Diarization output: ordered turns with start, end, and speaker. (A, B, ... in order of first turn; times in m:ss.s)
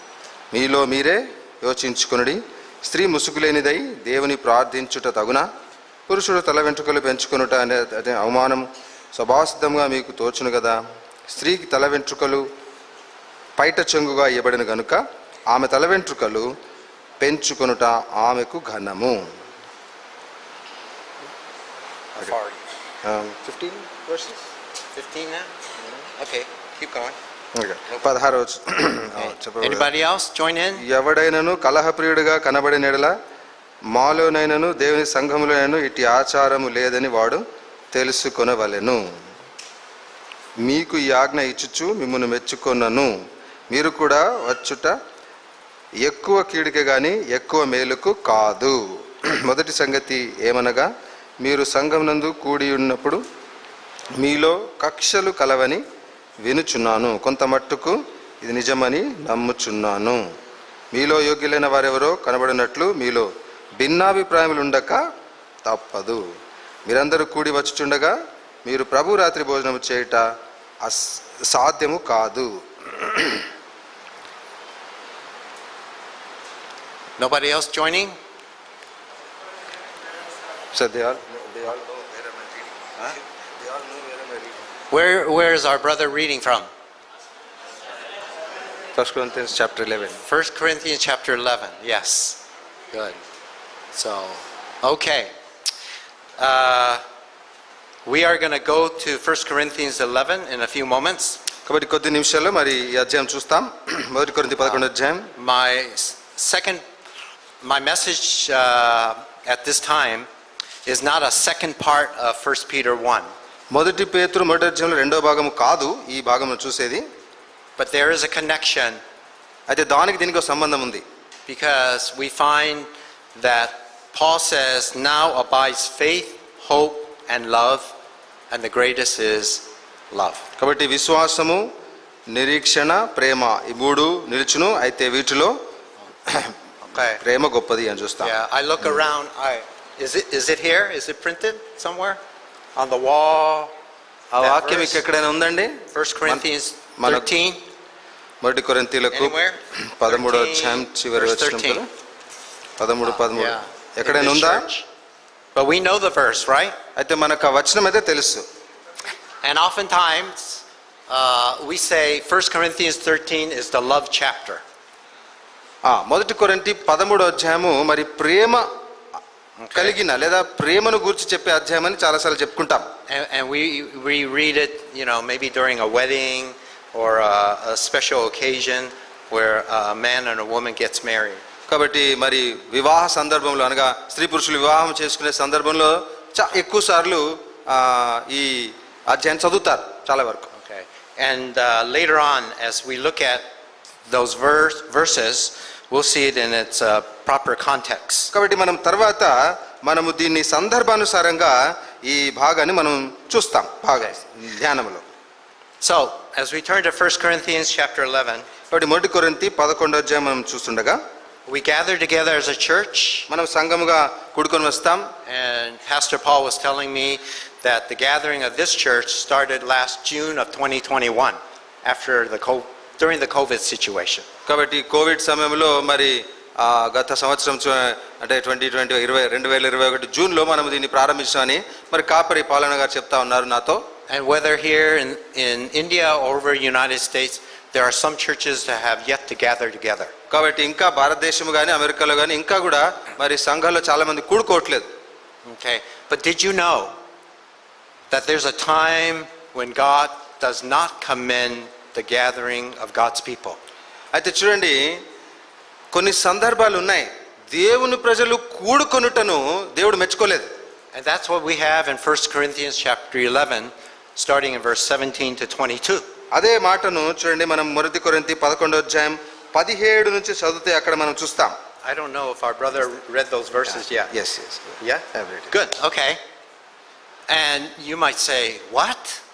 0:00.5-0:05.4 A
0:06.1-0:12.5 A
0:13.6-0:16.5 A
0:17.2-0:19.2 A
0:22.1-0:22.6 B
0:23.0-0:24.4 A
0:24.9-0:25.5 B
0:26.2-0:27.2 B
0:27.5-0:29.9 A
0:29.2-0:30.8 B
0:30.8-0:33.1 A
0:33.9-0:37.4 A
0:37.9-0:39.0 A
0:40.6-0:43.1 A
0:43.7-0:45.0 A
0:46.0-0:50.9 A
0:51.4-0:53.2 A
0:54.2-0:55.8 A
0:56.4-1:00.2 A
1:00.9-1:05.0 A
1:05.6-1:06.2 A
1:06.9-1:10.3 A
1:10.8-1:13.4 A
1:17.2-1:18.2 B
1:20.7-1:24.5 A
1:24.9-1:26.7 B
1:29.0-1:30.2 A
1:30.3-1:32.4 B
1:32.9-1:33.2 B
1:33.9-1:35.3 B
1:36.4-1:37.0 B
1:38.0-1:41.4 B
1:41.6-1:45.3 A
1:45.4-1:46.8 B
1:47.6-1:50.3 B
1:50.8-1:53.3 B
1:53.7-1:57.0 A
1:57.8-1:59.0 B
1:59.7-2:01.0 A
2:01.5-2:07.9 B
2:08.5-2:10.4 B
2:10.6-2:11.7 A
2:12.3-2:15.6 A
2:16.3-2:16.5 A
2:16.8-2:17.2 B
2:17.2-2:18.3 A
2:18.2-2:22.2 B
2:22.8-2:23.7 B
2:24.3-2:25.0 B
2:24.4-2:26.4 A
2:25.9-2:27.6 B
2:27.0-2:27.3 A
2:28.4-2:29.4 A
2:29.1-2:31.8 B
2:29.9-2:31.9 A
2:32.8-2:34.7 A
2:33.0-2:34.9 B
2:35.5-2:36.8 B
2:37.0-2:38.4 A
2:39.4-2:44.6 B
2:45.8-2:48.6 A
2:49.6-2:50.0 B
2:49.7-2:52.9 A
2:53.1-3:01.4 B
3:01.7-3:10.5 A
3:10.5-3:13.4 B
3:14.1-3:18.3 B
3:18.3-3:25.0 A
3:25.8-3:28.5 B
3:28.7-3:31.0 A
3:31.5-3:33.3 B
3:33.3-3:35.1 A
3:35.2-3:44.2 B
3:44.4-3:53.8 A
3:54.1-4:00.1 B
4:00.3-4:04.9 A
4:05.4-4:06.9 B
4:08.1-4:13.6 B
4:14.1-4:15.0 A
4:15.9-4:20.5 A
4:20.9-4:26.0 B
4:26.3-4:31.5 A
4:31.8-4:34.1 B
4:34.1-4:35.5 A
4:34.8-4:36.2 B
4:37.3-4:39.2 B